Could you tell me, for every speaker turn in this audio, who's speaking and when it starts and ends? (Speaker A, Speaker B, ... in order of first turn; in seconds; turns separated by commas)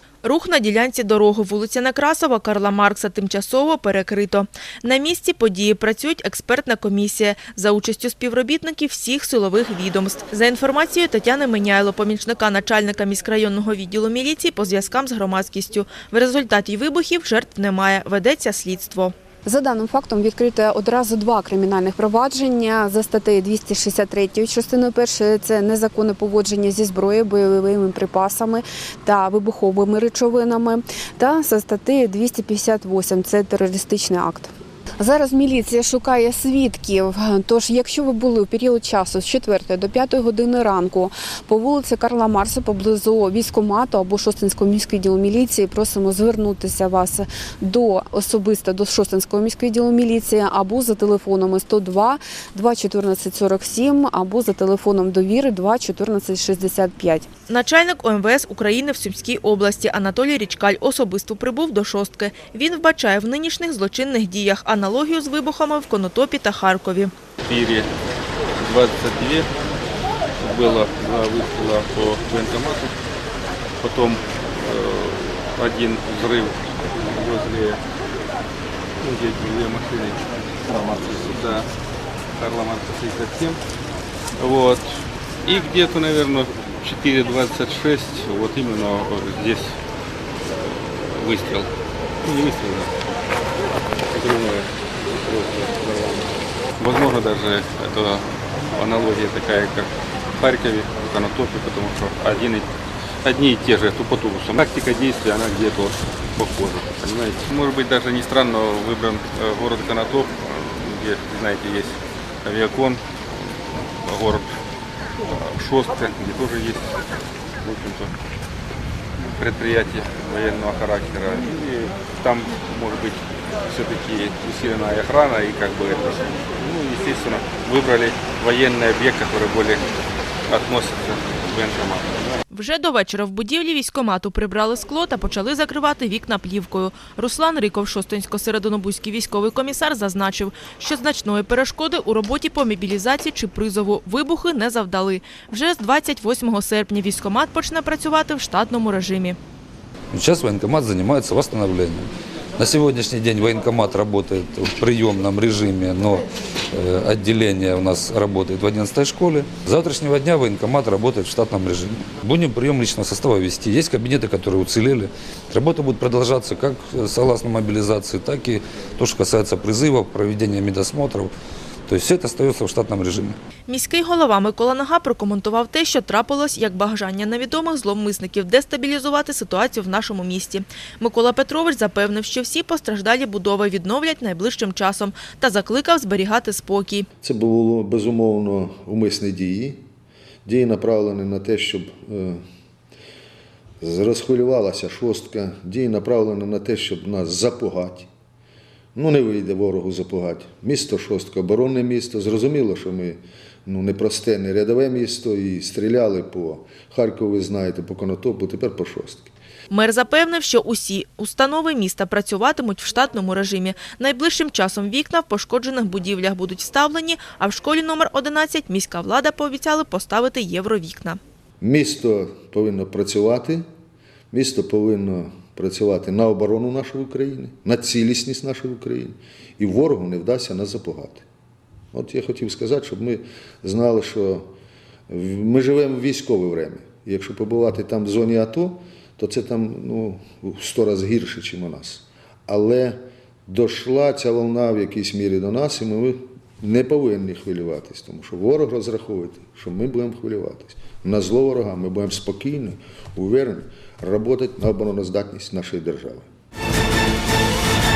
Speaker A: 0.2-19.1, Speaker B: 19.4-57.2, Speaker A: 57.5-67.1, Speaker C: 67.4-67.9, Speaker C: 68.6-69.5, Speaker C: 70.4-72.9, Speaker C: 73.8-77.8, Speaker C: 79.0-81.6, Speaker C: 82.4-83.6, Speaker C: 84.4-84.8, Speaker C: 85.4-89.7, Speaker C: 90.8-91.7, Speaker C: 92.2-92.9, Speaker C: 94.1-94.7, Speaker C: 95.2-96.2, Speaker C: 96.8-102.7, Speaker C: 103.2-113.0, Speaker C: 114.0-114.5, Speaker C: 115.5-117.0, Speaker C: 117.6-118.1, Speaker C: 119.4-129.8, Speaker C: 130.5-132.3, Speaker A: 132.5-149.4, Speaker D: 150.1-171.3, Speaker D: 171.9-173.4, Speaker A: 173.7-187.1, Speaker E: 187.2-189.8, Speaker E: 190.4-192.4, Speaker E: 193.8-198.1, Speaker E: 198.9-209.3, Speaker A: 209.7-221.2, Speaker E: 221.6-223.6, Speaker E: 224.3-231.2, Speaker E: 231.9-234.5, Speaker E: 235.1-256.3